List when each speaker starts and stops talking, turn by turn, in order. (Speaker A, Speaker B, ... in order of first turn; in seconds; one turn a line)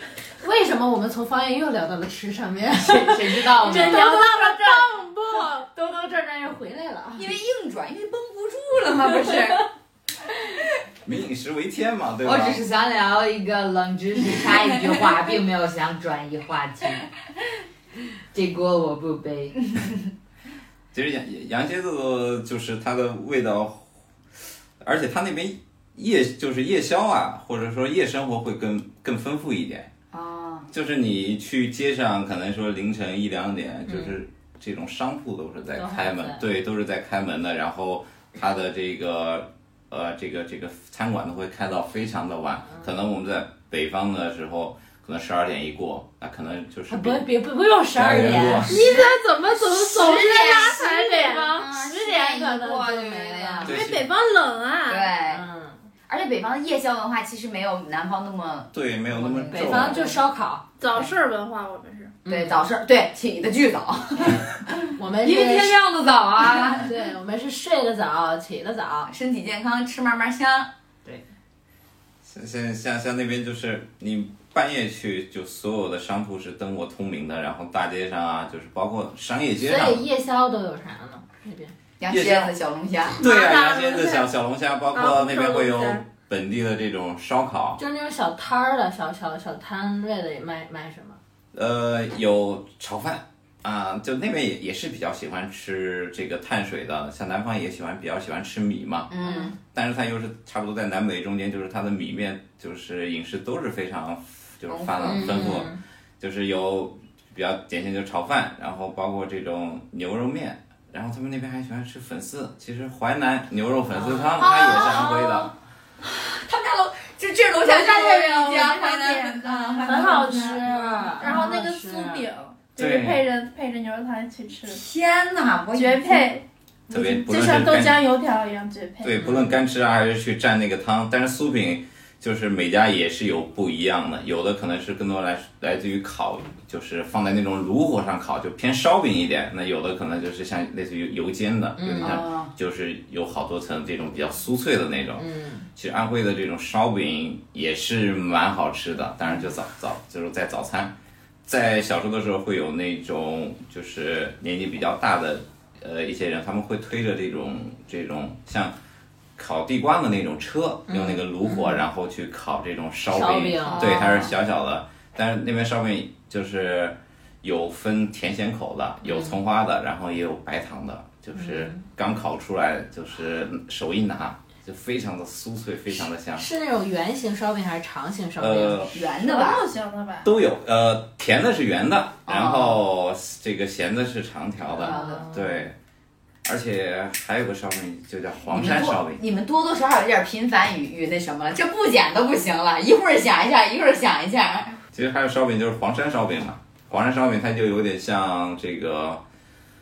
Speaker A: 0.4-7.3
Speaker B: 2.8-4.1
Speaker C: 3.6-5.7
Speaker D: 7.2-9.7
Speaker E: 11.1-12.7
Speaker B: 12.2-17.1
Speaker B: 18.3-19.6
Speaker E: 20.9-23.9
Speaker E: 24.8-29.9
Speaker D: 30.1-30.7
Speaker E: 30.7-47.3
Speaker A: 33.9-34.1
Speaker A: 35.8-36.4
Speaker A: 46.9-48.8
Speaker E: 48.0-48.8
Speaker D: 48.7-53.8
Speaker C: 48.7-51.6
Speaker A: 50.0-53.8
Speaker E: 53.6-54.1
Speaker C: 53.7-55.1
Speaker D: 54.9-55.5
Speaker A: 55.3-55.8
Speaker D: 56.1-60.2
Speaker E: 58.7-60.1
Speaker A: 59.5-60.6
Speaker C: 60.8-62.2
Speaker A: 62.2-62.6
Speaker D: 62.3-64.5
Speaker A: 65.0-65.8
Speaker B: 65.2-66.9
Speaker A: 66.7-69.1
Speaker D: 69.1-70.7
Speaker E: 72.2-80.0
Speaker A: 79.6-81.7
Speaker D: 82.0-83.2
Speaker E: 82.1-82.5
Speaker E: 83.2-87.8
Speaker C: 83.2-84.3
Speaker C: 84.9-86.0
Speaker A: 87.8-91.2
Speaker E: 91.5-99.1
Speaker D: 99.1-99.6
Speaker A: 99.2-99.6
Speaker E: 99.7-115.5
Speaker D: 104.7-105.3
Speaker A: 105.0-105.8
Speaker A: 113.9-114.6
Speaker D: 114.4-115.2
Speaker C: 114.4-115.4
Speaker D: 116.0-121.4
Speaker C: 117.6-120.6
Speaker A: 119.8-122.2
Speaker C: 121.2-124.8
Speaker E: 122.8-123.2
Speaker D: 124.7-126.3
Speaker C: 125.7-129.3
Speaker E: 126.9-128.0
Speaker E: 129.0-150.9
Speaker A: 129.2-129.5
Speaker A: 141.8-142.2
Speaker D: 142.0-142.5
Speaker A: 145.2-145.7
Speaker E: 151.5-158.7
Speaker E: 159.4-176.5
Speaker A: 160.9-161.8
Speaker A: 163.1-163.9
Speaker D: 163.7-164.3
Speaker A: 169.0-169.4
Speaker A: 171.4-171.8
Speaker A: 176.3-178.8
Speaker E: 178.4-179.1
Speaker D: 178.9-179.6
Speaker C: 179.2-180.3
Speaker E: 180.2-185.8
Speaker D: 182.3-182.8
Speaker A: 184.8-185.4
Speaker D: 184.8-185.3
Speaker E: 186.4-189.2
Speaker D: 188.5-194.8
Speaker E: 194.9-199.2